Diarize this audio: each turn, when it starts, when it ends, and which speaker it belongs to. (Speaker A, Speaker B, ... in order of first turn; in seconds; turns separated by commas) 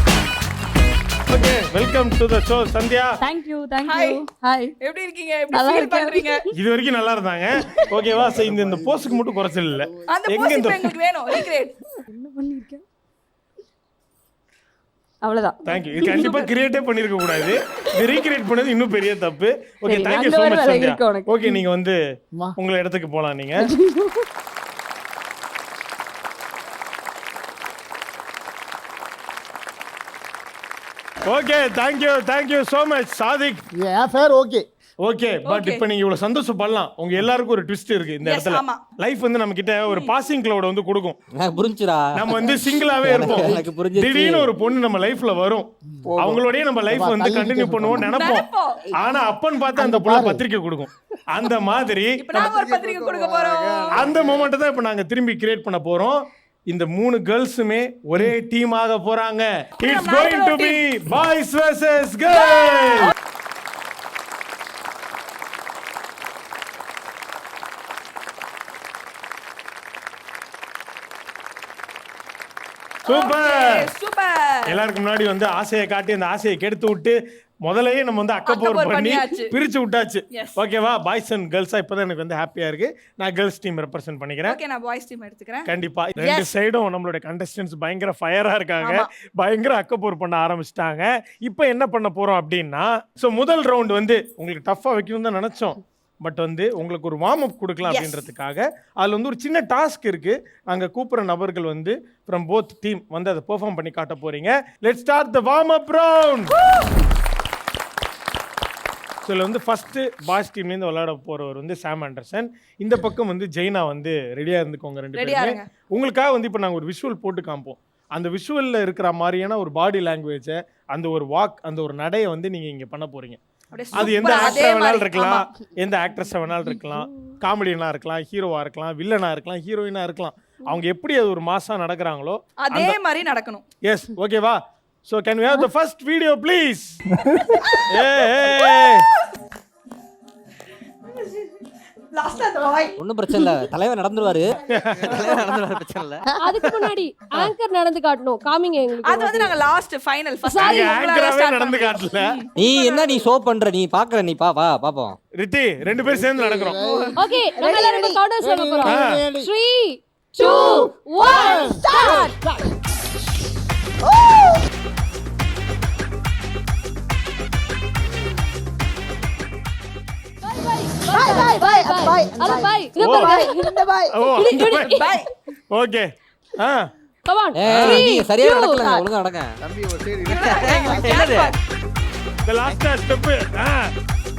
Speaker A: 1.3-3.2, Speaker B: 3.2-4.7, Speaker C: 3.8-4.2, Speaker C: 4.8-6.4, Speaker B: 5.5-6.5, Speaker A: 6.5-10.9, Speaker D: 7.9-10.1, Speaker C: 10.1-11.8, Speaker B: 12.1-12.8, Speaker B: 15.2-16.3, Speaker A: 15.6-22.0, Speaker C: 16.0-16.5, Speaker B: 19.8-21.6, Speaker A: 22.6-23.7, Speaker B: 23.6-24.0, Speaker A: 31.2-33.6, Speaker E: 33.8-34.6, Speaker A: 35.0-41.2, Speaker C: 35.4-35.8, Speaker C: 38.2-38.8, Speaker F: 41.4-44.5, Speaker A: 42.1-52.5, Speaker D: 46.1-46.5, Speaker E: 46.9-48.1, Speaker C: 48.1-48.8, Speaker E: 49.7-50.4, Speaker C: 52.2-53.9, Speaker D: 52.3-54.5, Speaker A: 53.9-63.1, Speaker C: 59.8-60.8, Speaker C: 62.3-63.1, Speaker C: 73.0-74.5, Speaker A: 73.1-73.9, Speaker A: 74.7-84.6, Speaker C: 78.5-79.5, Speaker C: 80.3-80.6, Speaker C: 84.4-86.5, Speaker A: 85.7-106.6, Speaker C: 88.8-89.1, Speaker C: 97.8-98.2, Speaker A: 109.2-123.4, Speaker C: 115.1-115.6, Speaker C: 123.7-125.4, Speaker A: 123.9-133.0, Speaker C: 132.6-133.6, Speaker A: 133.8-137.0, Speaker E: 137.2-137.6, Speaker A: 137.9-139.1, Speaker C: 142.2-142.9, Speaker B: 142.3-142.9, Speaker F: 143.0-146.2, Speaker A: 144.7-145.5, Speaker G: 146.4-149.6, Speaker C: 149.0-152.5, Speaker G: 150.4-151.0, Speaker A: 150.6-152.4, Speaker F: 152.6-155.2, Speaker A: 155.3-156.8, Speaker E: 156.2-157.1, Speaker C: 156.8-157.1, Speaker G: 157.2-162.1, Speaker B: 157.5-158.2, Speaker E: 158.4-159.5, Speaker A: 158.8-159.2, Speaker E: 160.4-162.6, Speaker B: 160.4-162.3, Speaker B: 164.0-164.6, Speaker G: 170.4-173.8, Speaker B: 171.0-174.2, Speaker A: 173.0-173.3, Speaker A: 174.1-175.0, Speaker G: 174.3-175.2, Speaker C: 174.8-175.3, Speaker A: 175.7-176.9, Speaker G: 177.3-178.7, Speaker F: 177.6-179.6, Speaker A: 177.7-178.0, Speaker B: 178.4-179.1, Speaker D: 179.6-181.3, Speaker C: 180.2-181.6, Speaker F: 180.3-181.5, Speaker A: 182.4-183.9